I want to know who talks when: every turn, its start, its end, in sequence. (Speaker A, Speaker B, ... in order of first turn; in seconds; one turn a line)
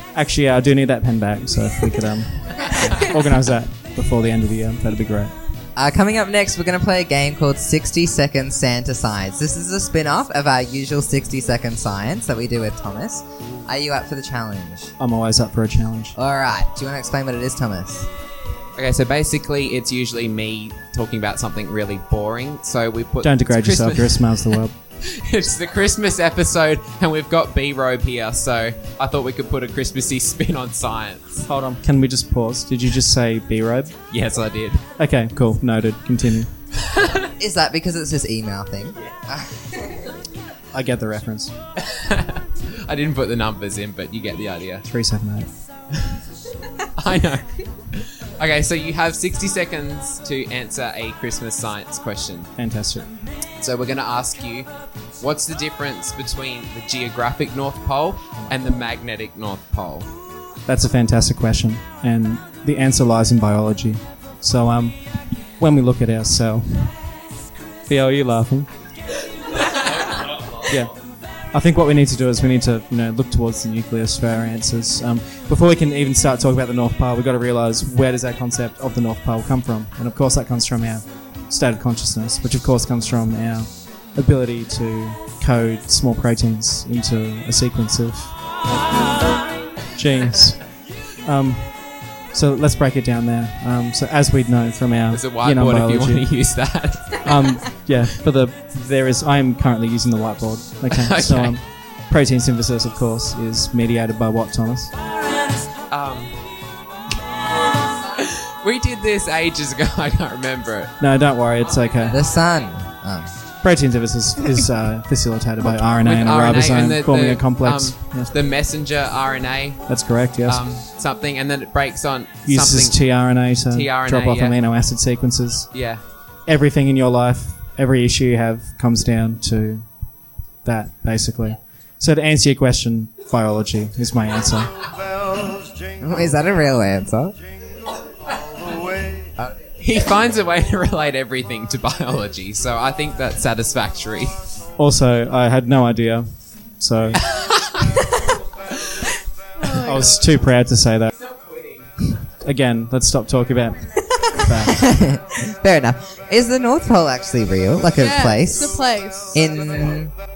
Speaker A: 0.1-5.3
Speaker B: 5.8-14.9
Speaker A: 15.0-16.1
Speaker B: 16.1-18.1
Speaker C: 18.8-31.4
Speaker A: 23.2-24.8
Speaker A: 31.4-33.9
Speaker C: 34.1-34.8
Speaker A: 35.0-36.5
Speaker B: 37.4-39.8
Speaker A: 40.7-41.5
Speaker C: 41.9-44.8
Speaker A: 44.8-45.5
Speaker C: 47.0-47.4
Speaker C: 48.4-52.5
Speaker A: 52.6-53.1
Speaker C: 53.6-54.7
Speaker C: 55.2-60.1
Speaker A: 60.7-65.0
Speaker A: 65.6-66.9
Speaker A: 67.9-68.7
Speaker A: 70.2-70.9
Speaker A: 71.5-88.4
Speaker A: 89.9-90.6
Speaker A: 91.2-91.7
Speaker A: 92.3-96.3
Speaker C: 95.1-97.2
Speaker A: 97.2-104.9
Speaker C: 100.9-101.6
Speaker C: 105.9-106.3
Speaker C: 108.2-110.9
Speaker A: 111.0-112.2
Speaker B: 112.1-113.3
Speaker A: 113.6-118.3
Speaker C: 115.8-119.8
Speaker A: 119.9-120.6
Speaker C: 120.4-123.0
Speaker A: 122.4-125.7
Speaker C: 123.6-124.6
Speaker C: 125.7-126.0
Speaker A: 126.5-129.8
Speaker A: 130.6-134.9
Speaker B: 136.0-137.3
Speaker C: 139.8-144.3
Speaker A: 144.8-146.3
Speaker A: 146.8-147.2
Speaker C: 147.3-147.8
Speaker D: 149.6-150.2
Speaker A: 149.8-151.1
Speaker C: 151.2-151.9
Speaker A: 152.4-154.8
Speaker B: 154.6-158.8
Speaker D: 157.9-159.4
Speaker B: 159.3-160.1